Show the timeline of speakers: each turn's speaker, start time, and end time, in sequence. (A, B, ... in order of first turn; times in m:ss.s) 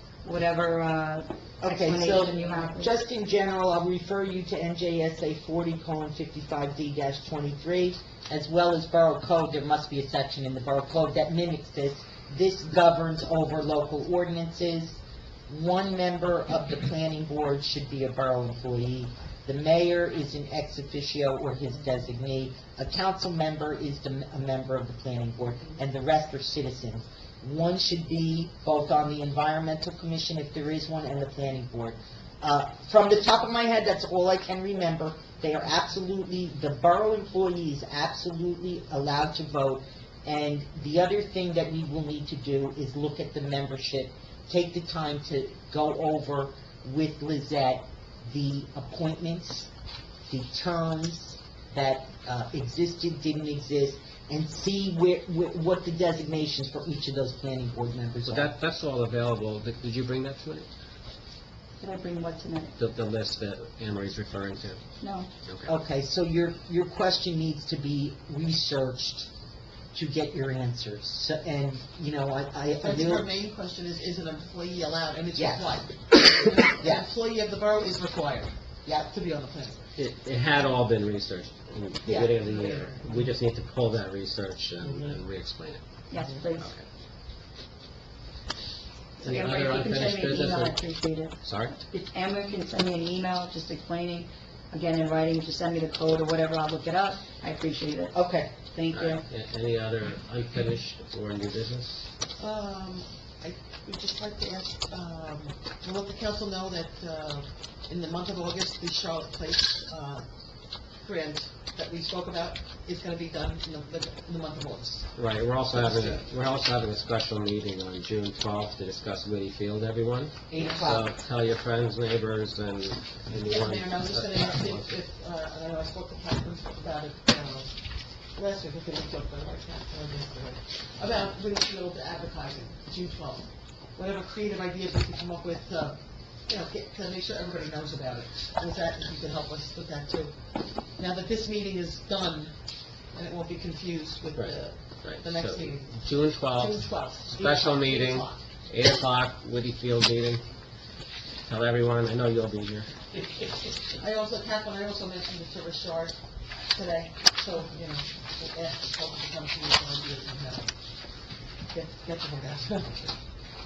0:00.2-0:02.9 A
0:01.6-0:49.7 B
0:50.3-0:58.5 B
0:58.3-1:00.7 C
1:01.8-1:02.8 A
1:02.8-1:04.8 C
1:05.0-1:05.3 A
1:05.5-1:05.7 C
1:05.7-1:09.3 B
1:09.9-1:13.3 B
1:12.8-1:19.8 D
1:15.4-1:15.8 B
1:16.4-1:17.0 B
1:20.0-1:25.8 C
1:22.1-1:23.3 D
1:26.1-1:26.7 A
1:26.4-1:26.8 C
1:29.2-1:39.2 A
1:29.2-1:31.7 C
1:38.1-1:38.5 B
1:38.9-1:42.0 C
1:42.4-1:50.3 D
1:51.0-1:55.1 D
1:55.2-2:05.0 C
1:55.7-1:56.2 D
2:00.5-2:01.1 B
2:03.4-2:07.7 D
2:08.4-2:20.4 D
2:21.0-2:22.5 D
2:23.1-2:26.0 D
2:24.4-2:30.4 C
2:26.5-2:28.4 D
2:31.5-2:32.9 C
2:33.9-2:36.2 D
2:36.7-2:40.7 D
2:41.7-2:43.1 D